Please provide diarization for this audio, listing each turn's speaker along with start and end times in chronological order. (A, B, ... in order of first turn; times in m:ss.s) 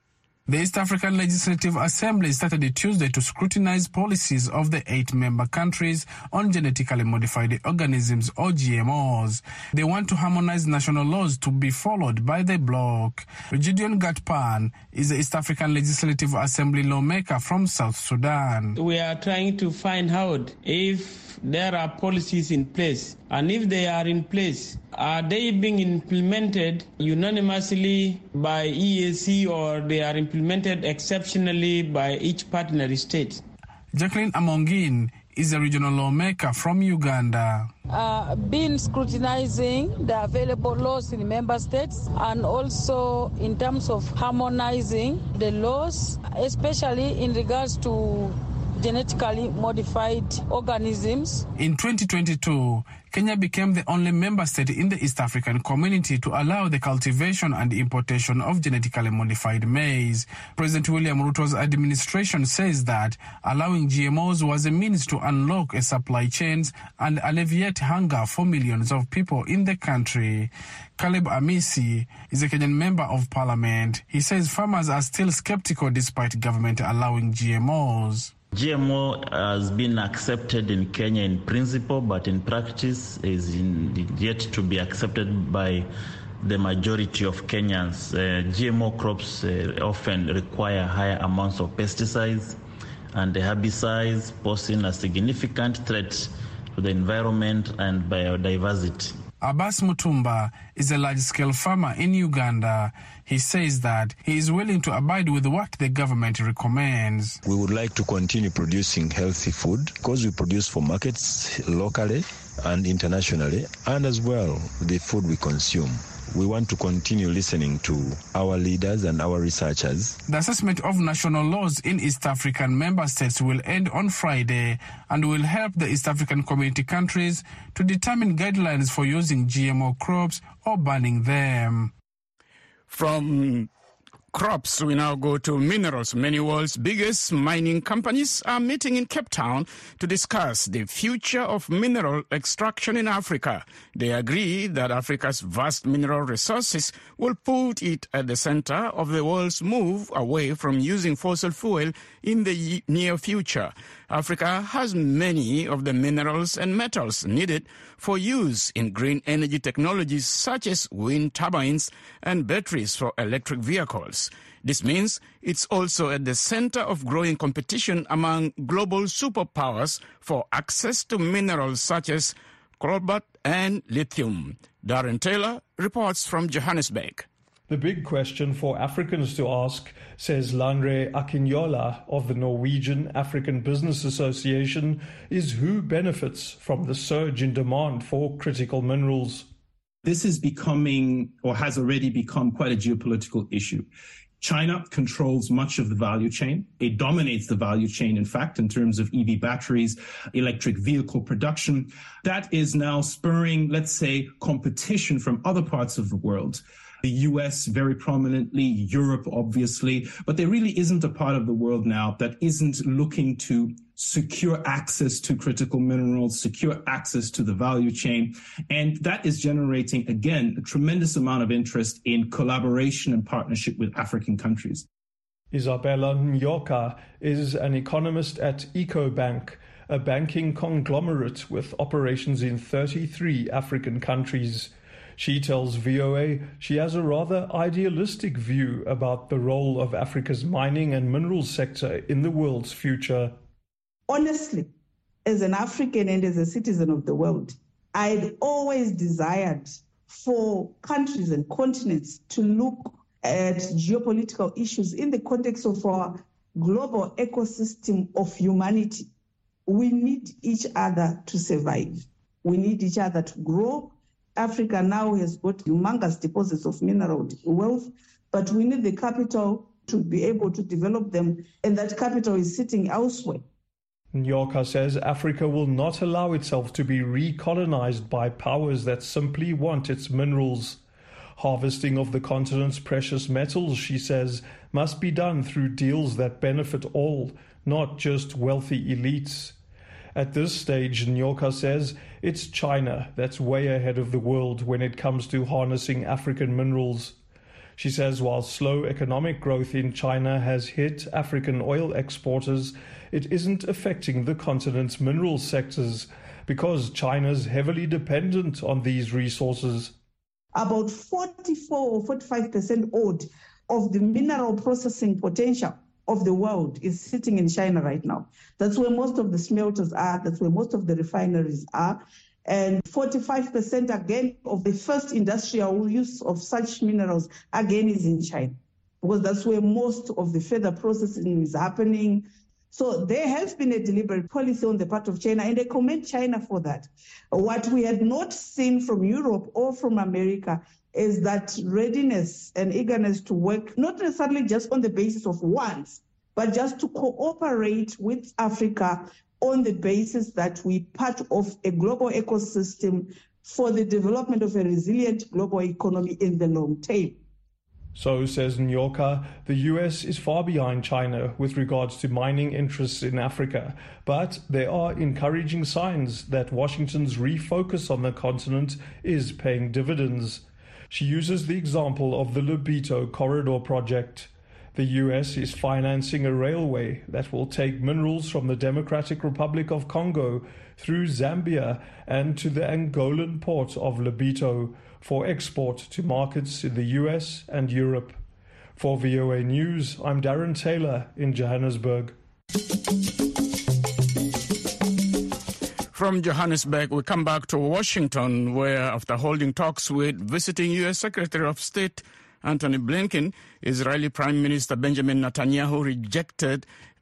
0:00.5-0:18.8 A
0:18.8-0:33.4 B
0:33.9-0:37.7 A
0:37.9-0:51.5 C
0:51.6-1:18.3 A
1:18.5-1:25.9 D
1:26.4-1:32.6 D
1:33.1-1:39.2 D
1:39.4-1:47.4 A
1:47.4-2:00.2 E
2:00.3-2:11.9 A
2:12.9-2:13.7 F
2:14.3-2:57.3 F
2:57.7-3:09.5 G
3:10.0-3:13.9 H
3:14.4-3:44.9 H
3:45.5-4:03.4 G
4:04.1-4:04.7 I
4:05.2-4:19.1 I
4:19.7-4:33.4 I
4:34.1-4:40.8 G
4:41.4-4:49.6 G
4:50.2-4:57.2 G
4:57.8-5:09.9 G
5:10.6-5:57.2 I
5:58.0-6:28.2 G
6:28.8-6:32.1 G
6:35.9-6:46.7 F